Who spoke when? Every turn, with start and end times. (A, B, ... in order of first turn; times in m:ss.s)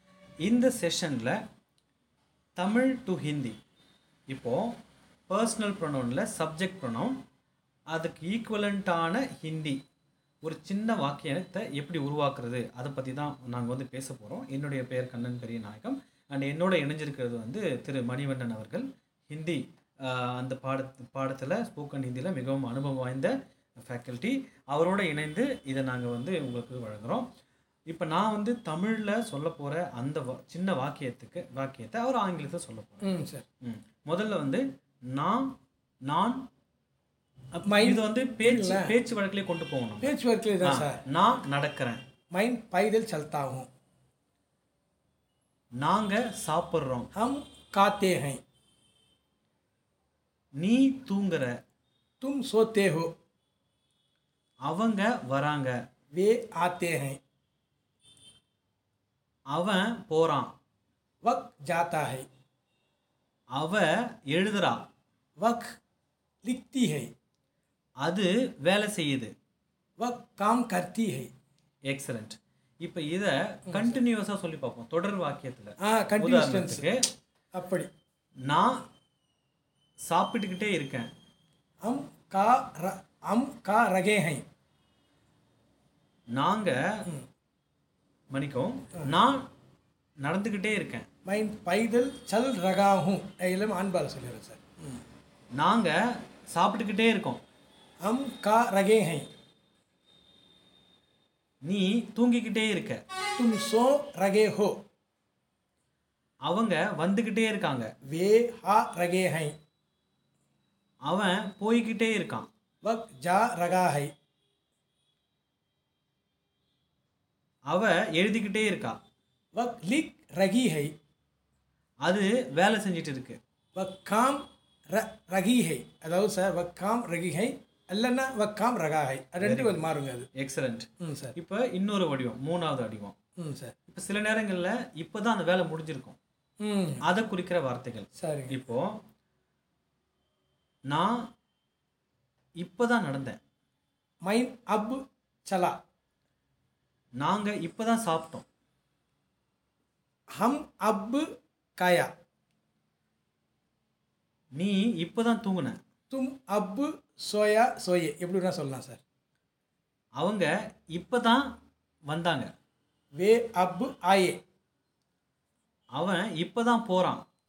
0:00.4-0:01.4 A
0:02.6-0:03.6 A
0:04.3-0:07.2 A
0:07.9-0:09.8 A
0:10.4-0:27.3 A
0:27.9-0:33.1 A
0:33.0-0:33.4 B
0:33.6-0:36.4 A
0:37.5-0:42.0 A
0:37.7-0:39.0 B
0:40.0-0:41.0 B
0:42.3-0:43.7 B
0:45.8-0:47.1 A
0:47.2-0:48.4 B
0:50.6-0:51.6 A
0:52.2-0:53.1 B
0:54.6-0:55.8 A
0:56.1-0:57.2 B
0:59.5-1:00.5 A
1:01.2-1:02.3 B
1:03.5-1:04.8 A
1:05.4-1:05.8 B
1:06.4-1:07.1 B
1:08.0-1:09.3 A
1:10.0-1:11.3 B
1:11.9-1:17.1 A
1:13.7-1:14.0 B
1:15.8-1:16.9 B
1:17.5-1:17.9 B
1:18.5-1:18.8 A
1:20.0-1:21.1 A
1:21.8-1:24.4 B
1:26.3-1:27.1 A
1:28.3-1:29.5 A
1:30.2-1:31.1 A
1:31.3-1:35.0 B
1:35.6-1:37.4 A
1:38.0-1:39.3 B
1:41.6-1:43.0 A
1:43.4-1:44.8 B
1:46.5-1:47.9 A
1:48.1-1:49.5 B
1:51.1-1:52.5 A
1:52.8-1:54.1 B
1:57.7-1:59.0 A
1:59.6-2:00.9 B
2:02.0-2:03.4 A
2:03.8-2:10.3 B
2:09.4-2:13.2 A
2:11.0-2:11.4 B
2:13.4-2:13.7 B
2:13.9-2:16.2 A
2:16.6-2:17.0 B
2:17.0-2:19.0 A
2:18.2-2:18.6 B
2:20.9-2:21.3 A
2:22.6-2:23.4 A
2:24.2-2:25.8 B
2:27.2-2:28.4 A
2:30.4-2:31.3 B
2:31.8-2:32.1 B
2:34.6-2:35.8 A
2:36.1-2:39.0 B
2:40.2-2:41.6 A
2:42.1-2:42.5 A
2:43.2-2:44.4 B
2:45.9-2:47.2 A